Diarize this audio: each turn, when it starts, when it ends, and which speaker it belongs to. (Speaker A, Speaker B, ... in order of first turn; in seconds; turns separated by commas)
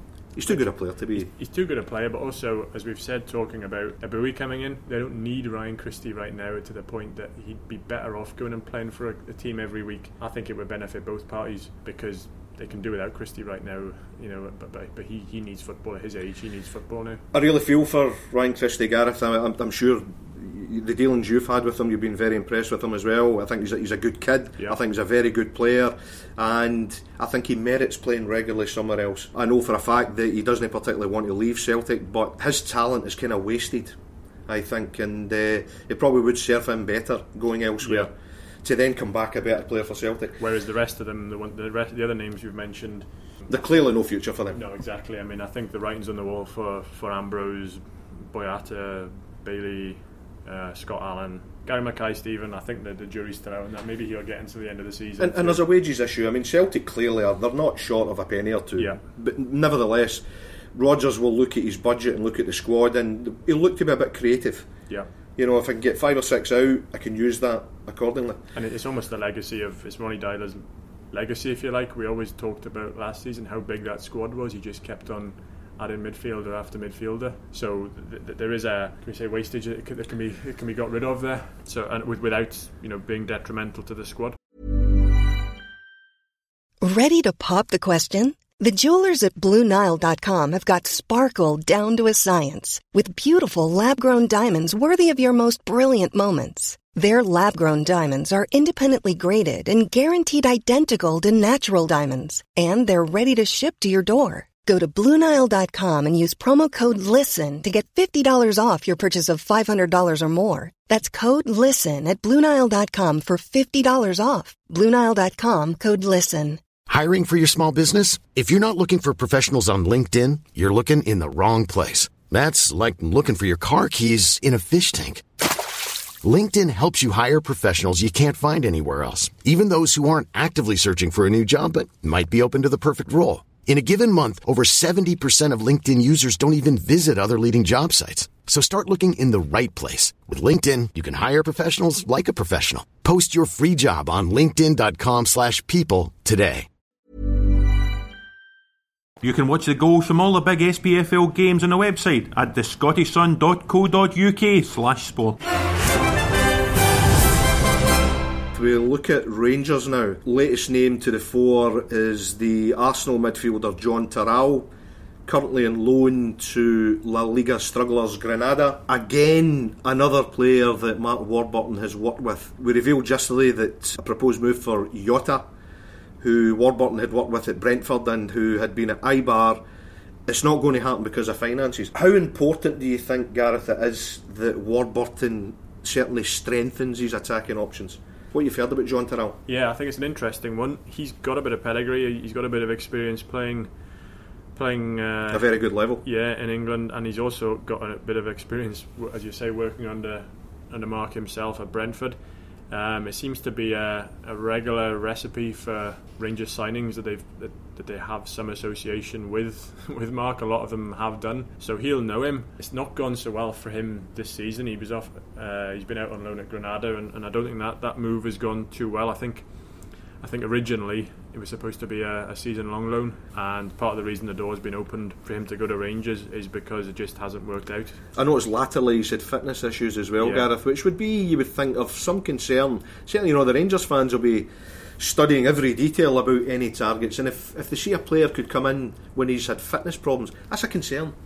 Speaker A: 0.3-1.3, Speaker B: 0.4-17.2, Speaker A: 17.3-34.0, Speaker A: 34.5-38.1, Speaker B: 37.8-38.1, Speaker A: 38.6-40.4, Speaker B: 40.4-43.0, Speaker A: 43.5-44.6, Speaker B: 44.5-55.6, Speaker A: 55.2-64.7, Speaker A: 65.4-68.4, Speaker B: 68.5-84.4, Speaker C: 86.8-116.6, Speaker D: 116.9-125.2, Speaker D: 126.2-146.7, Speaker E: 149.2-155.4, Speaker A: 158.5-164.7, Speaker A: 165.2-175.4, Speaker A: 176.2-179.6, Speaker A: 180.3-189.4, Speaker B: 189.5-193.7, Speaker B: 194.5-228.0, Speaker A: 195.3-196.0, Speaker A: 228.2-234.5, Speaker B: 230.2-230.5, Speaker A: 235.0-241.1